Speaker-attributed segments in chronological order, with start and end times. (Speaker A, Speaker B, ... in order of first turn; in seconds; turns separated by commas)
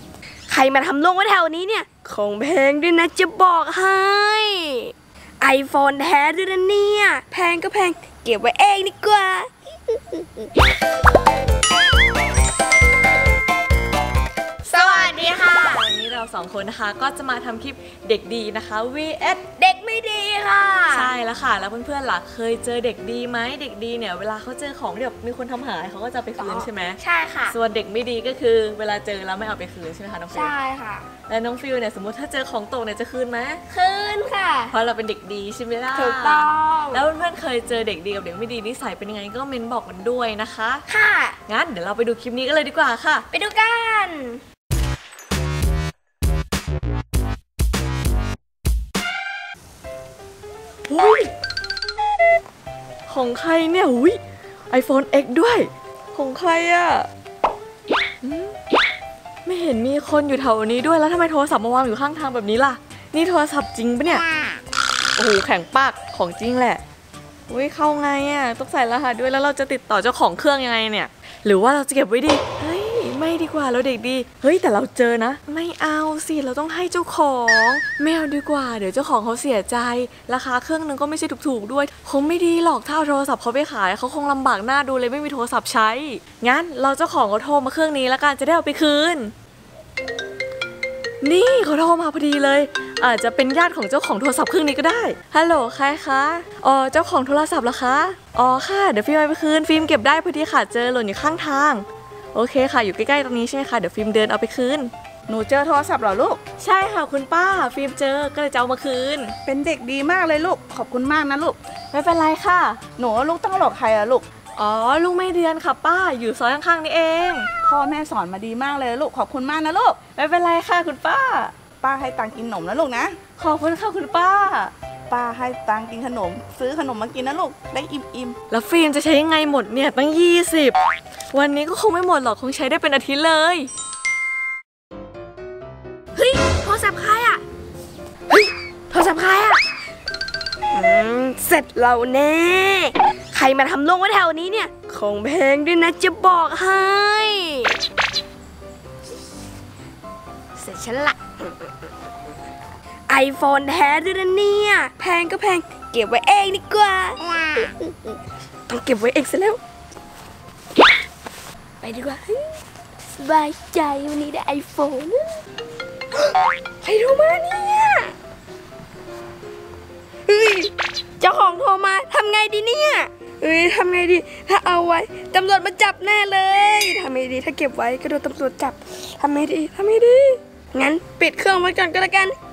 Speaker A: 0.5-10.5, Speaker B: 14.7-19.4, Speaker A: 14.7-15.8, Speaker A: 19.5-21.1, Speaker B: 20.9-30.6, Speaker A: 26.4-27.6, Speaker A: 30.3-31.1, Speaker B: 31.3-33.6, Speaker A: 33.7-34.7, Speaker B: 34.7-40.8, Speaker A: 35.9-37.0, Speaker A: 40.9-41.4, Speaker B: 41.5-43.3, Speaker A: 43.3-44.4, Speaker B: 50.9-51.3, Speaker B: 53.1-54.2, Speaker B: 54.7-57.1, Speaker B: 58.2-58.6, Speaker B: 59.5-64.2, Speaker B: 65.2-66.8, Speaker B: 67.5-89.3, Speaker B: 91.2-104.9, Speaker C: 105.3-106.4, Speaker B: 106.6-109.3, Speaker C: 109.5-111.6, Speaker B: 111.9-112.8, Speaker C: 113.0-114.2, Speaker B: 114.6-117.5, Speaker C: 117.6-120.0, Speaker B: 120.2-121.5, Speaker C: 121.8-123.2, Speaker B: 123.4-124.7, Speaker C: 125.1-128.4, Speaker B: 128.5-130.8, Speaker B: 131.3-133.7, Speaker A: 136.2-137.4, Speaker A: 138.3-139.6, Speaker A: 140.7-147.8, Speaker A: 150.6-151.7, Speaker A: 153.1-158.1, Speaker A: 158.7-159.6, Speaker A: 161.8-162.5, Speaker A: 163.1-165.4, Speaker A: 166.2-168.1, Speaker A: 170.3-182.3